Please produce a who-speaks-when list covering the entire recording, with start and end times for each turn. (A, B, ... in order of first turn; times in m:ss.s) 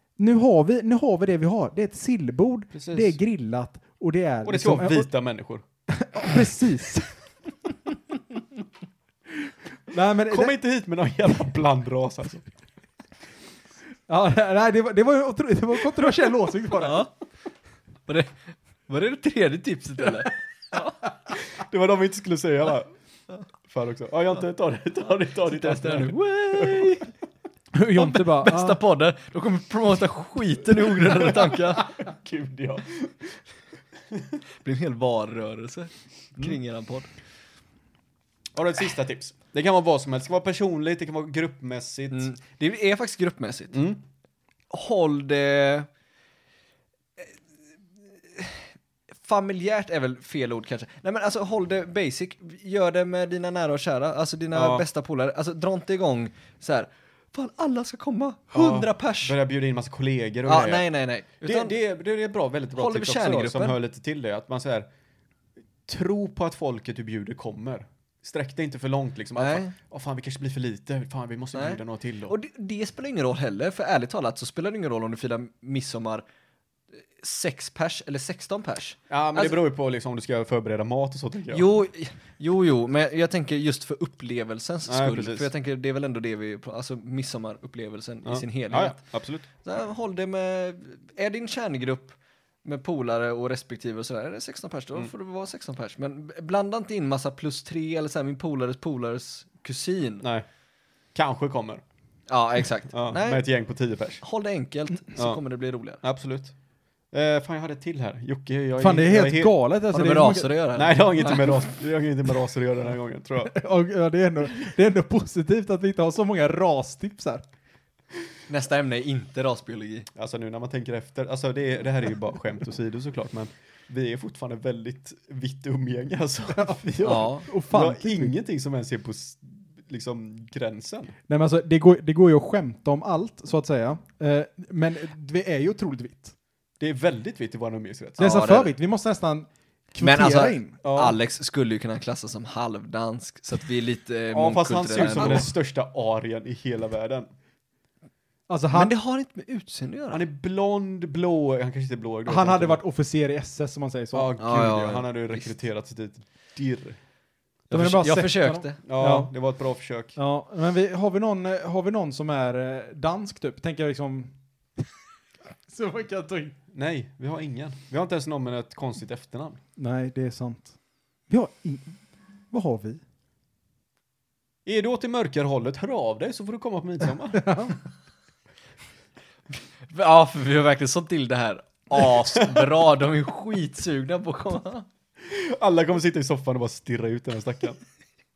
0:00.2-0:05.1 A
0:02.7-0:03.2 B
0:04.4-0:05.6 B
0:05.9-0:07.1 A
0:09.9-0:10.6 A
0:10.3-0:12.5 B
0:14.1-0:17.1 A
0:16.8-0:17.1 C
0:18.1-0:20.4 C
0:21.3-0:22.9 B
0:23.7-0:27.0 B
0:25.5-0:27.1 C
0:27.7-0:28.8 A
0:28.0-0:31.9 C
0:31.0-0:33.4 B
0:34.1-0:34.4 B
0:34.6-0:37.1 C
0:38.6-0:42.3 B
0:42.1-0:43.8 C
0:43.7-0:44.0 B
0:44.7-0:45.9 C
0:48.3-0:48.7 C
0:49.2-0:59.4 C
0:54.5-0:54.8 B
0:58.5-1:04.9 B
1:00.5-1:01.8 C
1:02.8-1:03.8 C
1:05.9-1:12.4 B
1:09.4-1:09.7 C
1:11.5-1:16.2 C
1:17.0-1:19.6 C
1:19.1-1:21.7 B
1:21.5-1:29.0 C
1:24.9-1:25.5 B
1:28.2-1:29.5 B
1:29.6-1:40.3 C
1:41.2-1:41.8 B
1:42.3-1:43.5 C
1:42.9-1:44.2 B
1:44.2-1:46.0 C
1:45.2-1:45.4 B
1:46.0-1:46.6 B
1:47.1-1:49.6 B
1:48.8-1:50.5 A
1:49.9-1:51.7 C
1:50.7-1:53.6 B
1:53.5-1:57.5 A
1:58.5-2:00.1 C
2:00.2-2:11.2 B
2:06.6-2:08.3 A
2:07.0-2:07.5 C
2:11.3-2:16.4 A
2:16.8-2:18.4 B
2:18.2-2:20.8 A
2:18.2-2:18.7 C
2:20.0-2:25.5 C
2:20.8-2:21.2 B
2:24.3-2:27.3 B
2:25.0-2:25.5 A
2:28.5-2:28.9 A
2:28.7-2:30.2 C
2:30.1-2:32.8 B
2:32.3-2:34.3 A
2:34.1-2:37.0 B
2:34.4-2:35.5 C
2:37.7-2:38.8 C
2:37.7-2:39.3 A
2:38.8-2:40.2 B
2:40.2-2:44.9 A
2:45.7-2:46.6 A
2:46.7-2:49.6 B
2:49.8-2:50.7 A
2:51.3-2:52.0 A
2:52.5-2:53.0 A
2:54.7-2:57.8 B
2:57.3-2:57.8 A
2:59.8-3:04.9 C
3:02.4-3:02.7 B
3:05.2-3:07.8 B